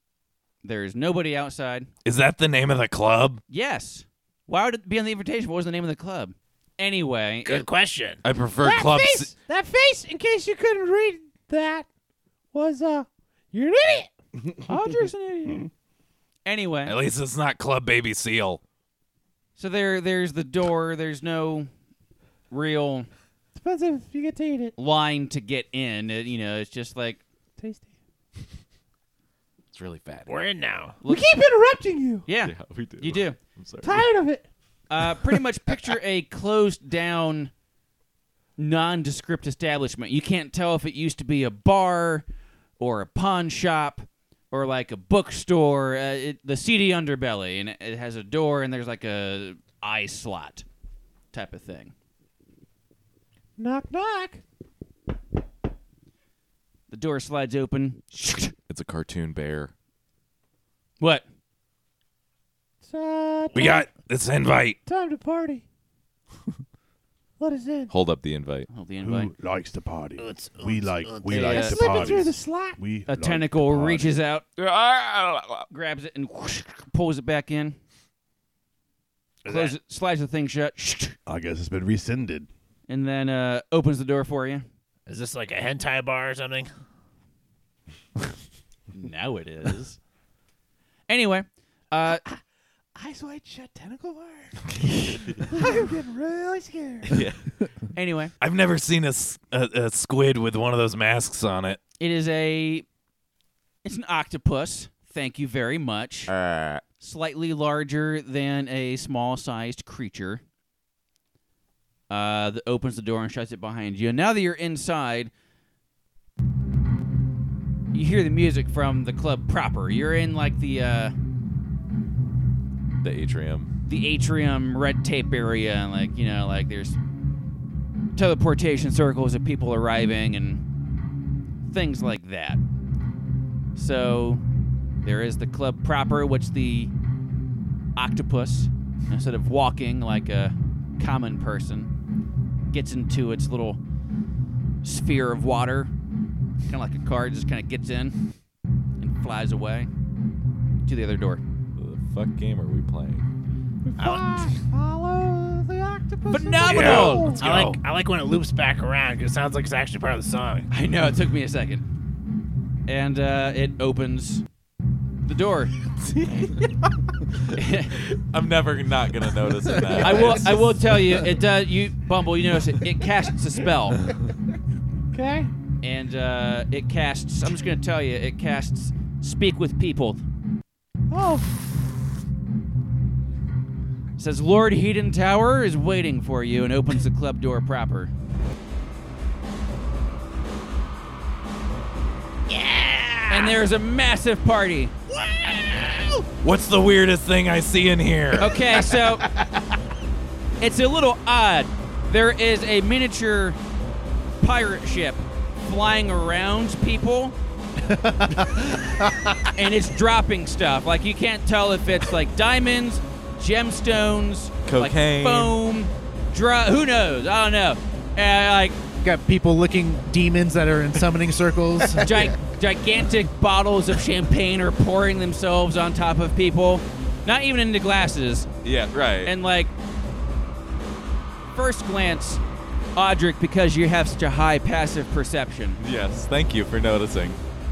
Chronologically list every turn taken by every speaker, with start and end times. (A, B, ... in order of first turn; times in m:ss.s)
0:00.6-0:01.9 A
0:02.0-0:03.4 B
0:03.5-0:07.7 A
0:07.4-0:08.2 C
0:08.2-0:09.3 D
0:08.6-0:11.9 E
0:12.5-0:14.1 E
0:14.7-0:15.7 A
0:16.4-0:17.0 A
0:16.8-0:18.6 B
0:19.6-0:21.7 A
0:22.5-0:23.1 A
0:23.5-0:24.7 E
0:24.8-0:27.2 A
0:27.6-0:27.9 E
0:29.7-0:30.3 D
0:30.3-0:31.0 C
0:31.0-0:31.3 A
0:31.1-0:32.2 E
0:32.2-0:33.4 A
0:32.4-0:34.1 D
0:33.8-0:34.4 E
0:34.9-0:37.5 A
0:38.6-0:42.2 A
0:42.8-0:50.6 A
0:51.3-0:51.9 A
0:53.6-0:54.4 E
0:56.9-0:58.5 A
0:58.7-0:59.7 D
1:02.8-1:03.9 E
1:03.5-1:04.8 B
1:04.8-1:05.6 E
1:07.4-1:07.9 E
1:07.9-1:08.7 D
1:08.7-1:09.3 A
1:09.0-1:14.1 F
1:10.2-1:11.4 C
1:11.3-1:12.0 A
1:11.4-1:12.8 E
1:13.1-1:14.4 A
1:14.6-1:15.4 C
1:15.7-1:17.8 A
1:19.4-1:19.7 C
1:19.4-1:21.2 A
1:21.2-1:22.5 F
1:22.9-1:24.7 A
1:25.1-1:26.7 C
1:28.9-1:30.0 A
1:31.1-1:32.2 A
1:33.0-1:34.5 E
1:35.0-1:35.4 D
1:35.5-1:37.2 E
1:37.1-1:37.4 D
1:37.9-1:38.3 A
1:38.4-1:41.8 B
1:42.0-1:42.8 A
1:43.8-1:46.3 A
1:46.3-1:46.8 D
1:47.0-1:50.4 A
1:52.1-1:55.3 A
1:57.9-2:01.1 A
2:03.0-2:03.7 D
2:03.9-2:07.0 A
2:08.2-2:10.6 A
2:11.7-2:12.6 A
2:13.8-2:14.4 A
2:15.0-2:16.9 A
2:18.0-2:21.9 A
2:22.7-2:23.8 A
2:24.8-2:25.9 A
2:26.7-2:28.2 A
2:29.0-2:29.9 A
2:30.8-2:31.4 A
2:31.8-2:33.2 D
2:33.8-2:37.4 E
2:34.0-2:34.5 C
2:36.3-2:37.7 A
2:36.7-2:37.2 F
2:36.8-2:40.7 C
2:40.7-2:41.8 A
2:42.9-2:44.4 A
2:45.2-2:45.7 A
2:47.5-2:48.0 A
2:48.1-2:50.8 D
2:50.0-2:54.0 A
2:55.1-2:55.5 E
2:55.8-3:00.2 A
3:01.1-3:01.5 E
3:04.2-3:08.1 A
3:12.5-3:13.6 C
3:13.3-3:14.9 A
3:15.1-3:16.2 C
3:16.4-3:18.6 B
3:18.4-3:19.2 A
3:19.0-3:19.4 C
3:20.6-3:23.6 A
3:24.4-3:27.3 A
3:29.5-3:38.8 A
3:34.6-3:35.6 D
3:39.0-3:42.1 G
3:42.0-3:48.5 A
3:42.0-3:42.3 F
3:48.6-3:49.3 D
3:49.2-3:49.7 A
3:51.5-3:52.4 A
3:53.0-3:55.8 A
3:55.8-3:57.4 D